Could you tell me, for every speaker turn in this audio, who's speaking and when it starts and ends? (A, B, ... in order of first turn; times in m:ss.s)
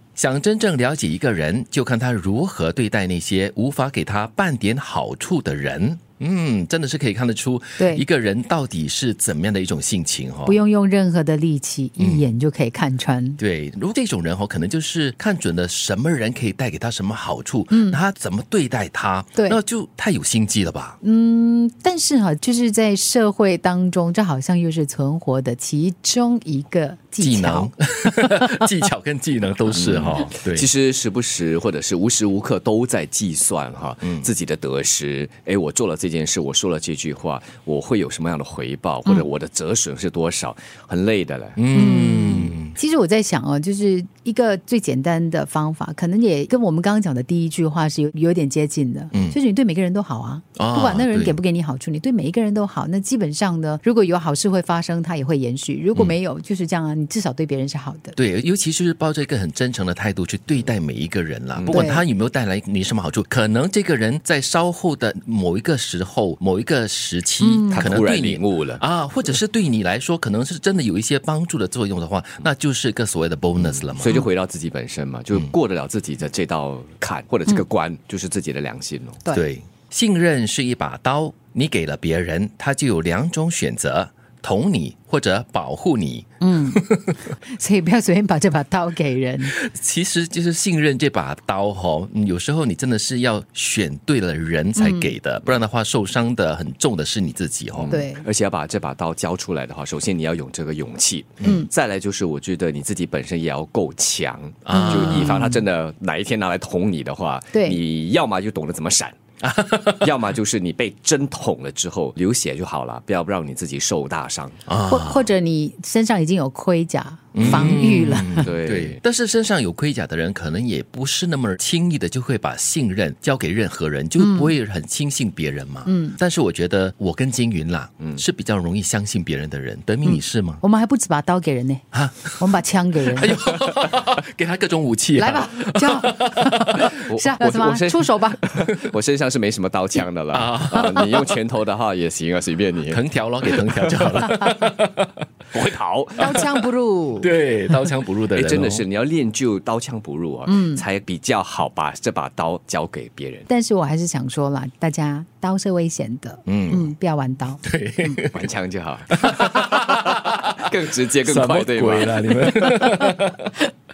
0:00.2-0:10.6 A
0:07.8-0:08.0 B
0:10.5-0:13.4 B
0:12.0-0:12.2 A
0:13.4-0:21.0 A
0:17.7-0:18.0 B
0:21.0-0:27.7 B
0:27.2-0:30.7 A
0:29.7-0:41.6 C
0:41.6-0:42.8 A
0:41.7-0:58.2 B
0:50.6-0:51.4 A
0:58.2-1:14.2 A
1:01.6-1:01.9 C
1:01.7-1:02.0 B
1:07.4-1:07.9 B
1:07.7-1:08.8 C
1:13.6-1:19.2 C
1:19.3-1:27.2 A
1:26.4-1:29.5 B
1:29.5-1:38.0 A
1:34.8-1:35.1 B
1:37.7-1:49.2 C
1:37.9-1:38.2 B
1:41.4-1:41.7 B
1:44.6-1:45.6 A
1:44.7-1:45.4 B
1:47.5-1:47.8 B
1:49.4-1:50.1 A
1:50.0-1:54.6 C
1:54.7-1:55.3 A
1:54.9-1:58.5 B
1:57.3-2:10.6 A
1:57.4-1:59.0 C
2:04.2-2:04.6 B
2:05.9-2:06.2 B
2:10.0-2:13.4 B
2:11.9-2:12.4 A
2:13.1-2:17.0 A
2:15.2-2:18.4 B
2:17.0-2:24.2 C
2:20.3-2:21.3 A
2:22.9-2:25.1 A
2:25.5-2:26.5 C
2:26.2-2:27.3 B
2:27.2-2:28.8 A
2:28.3-2:33.5 C
2:30.5-2:30.8 B
2:33.5-2:38.2 B
2:36.5-2:36.9 A
2:37.6-2:38.5 A
2:38.3-2:42.8 C
2:39.1-2:40.6 A
2:41.2-2:43.5 A